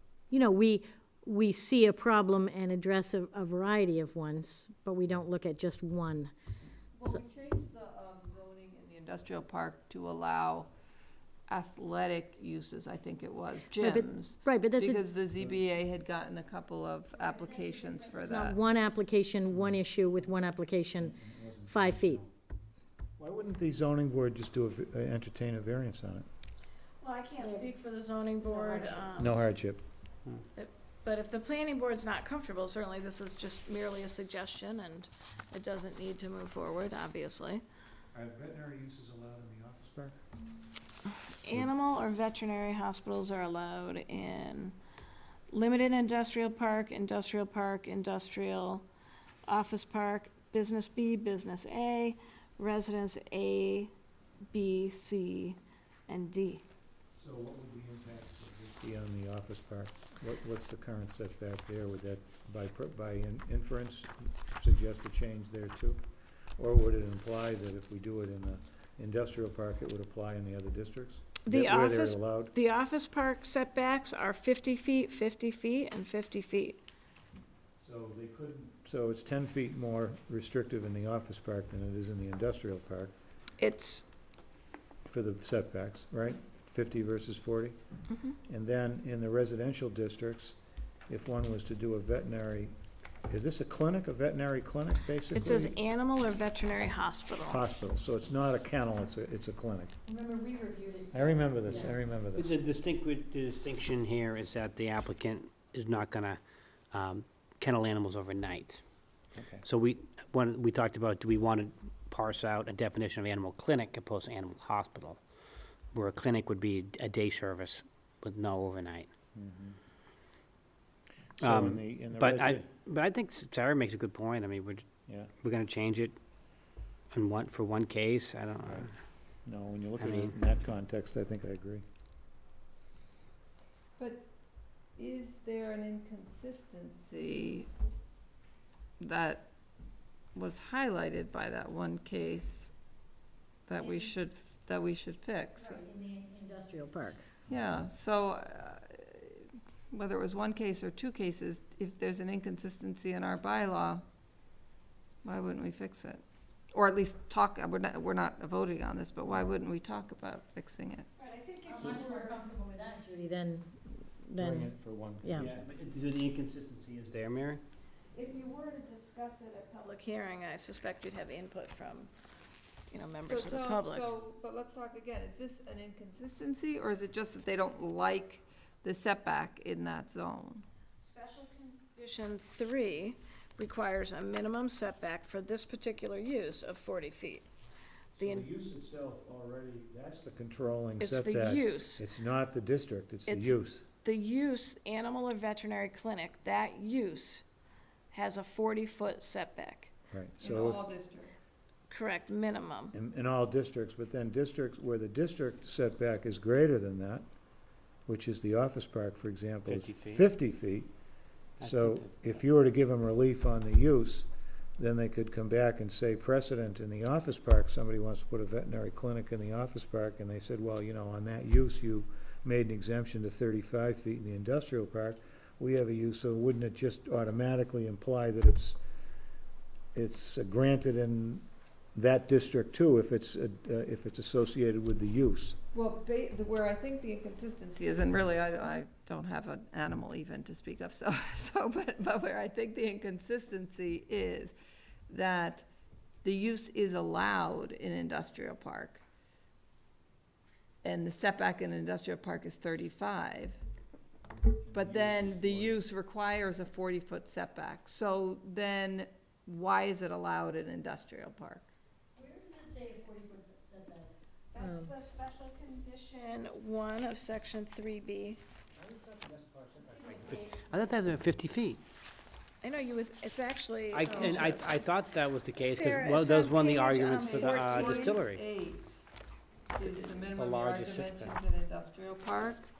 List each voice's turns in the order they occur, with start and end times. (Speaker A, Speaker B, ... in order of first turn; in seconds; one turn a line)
Speaker A: 0.3-6.3
Speaker B: 7.0-10.7
Speaker B: 11.5-18.6
Speaker A: 13.8-15.0
Speaker A: 18.1-22.2
Speaker C: 19.5-19.8
Speaker C: 21.0-22.3
Speaker C: 23.2-26.2
Speaker D: 27.0-29.4
Speaker A: 28.6-28.9
Speaker C: 29.2-29.8
Speaker D: 30.6-37.6
Speaker C: 38.1-40.2
Speaker D: 41.4-44.8
Speaker D: 45.5-48.9
Speaker D: 49.5-53.9
Speaker D: 54.5-56.6
Speaker C: 57.1-66.0
Speaker C: 66.6-72.5
Speaker D: 71.5-76.8
Speaker C: 77.8-83.1
Speaker D: 83.6-84.1
Speaker C: 85.0-87.8
Speaker C: 88.5-90.5
Speaker C: 91.1-92.7
Speaker C: 93.3-95.7
Speaker D: 95.3-97.7
Speaker C: 97.5-100.0
Speaker A: 100.1-102.0
Speaker C: 101.1-102.6
Speaker E: 102.3-106.4
Speaker E: 106.9-108.8
Speaker C: 109.3-109.6
Speaker E: 109.6-115.2
Speaker E: 115.9-119.1
Speaker C: 119.3-119.8
Speaker C: 121.4-122.7
Speaker E: 121.4-124.9
Speaker E: 125.4-126.2
Speaker E: 127.1-128.9
Speaker C: 129.4-131.8
Speaker E: 130.0-130.3
Speaker B: 134.0-134.3
Speaker B: 135.0-137.7
Speaker B: 139.0-139.5
Speaker B: 140.3-142.7
Speaker B: 143.7-145.8
Speaker A: 143.8-144.1
Speaker A: 145.6-147.3
Speaker B: 147.5-154.0
Speaker B: 155.2-161.1
Speaker D: 161.2-162.4
Speaker A: 161.7-165.5
Speaker C: 164.4-165.6
Speaker E: 165.3-167.6
Speaker D: 168.1-172.1
Speaker D: 172.9-174.1
Speaker B: 173.2-180.6
Speaker D: 181.0-187.5
Speaker D: 188.2-188.5
Speaker C: 188.2-193.8
Speaker D: 191.0-192.0
Speaker D: 193.3-197.4
Speaker D: 198.1-199.9
Speaker C: 200.1-200.8
Speaker B: 200.4-201.5
Speaker D: 201.9-202.9
Speaker C: 202.9-207.2
Speaker C: 208.1-210.9
Speaker E: 209.7-210.2
Speaker E: 211.6-212.3
Speaker C: 211.6-228.8
Speaker C: 229.9-235.6
Speaker B: 235.7-244.6
Speaker B: 245.1-245.7
Speaker B: 246.2-249.0
Speaker B: 250.8-253.6
Speaker C: 254.4-255.8
Speaker B: 254.7-261.7
Speaker A: 262.1-264.9
Speaker D: 264.5-268.4
Speaker E: 268.9-271.8
Speaker C: 269.3-269.6
Speaker A: 269.8-270.6
Speaker D: 272.6-274.9
Speaker E: 273.9-278.4
Speaker B: 274.0-274.6
Speaker D: 275.6-278.1
Speaker B: 276.8-278.9
Speaker B: 279.7-282.7
Speaker E: 280.3-281.4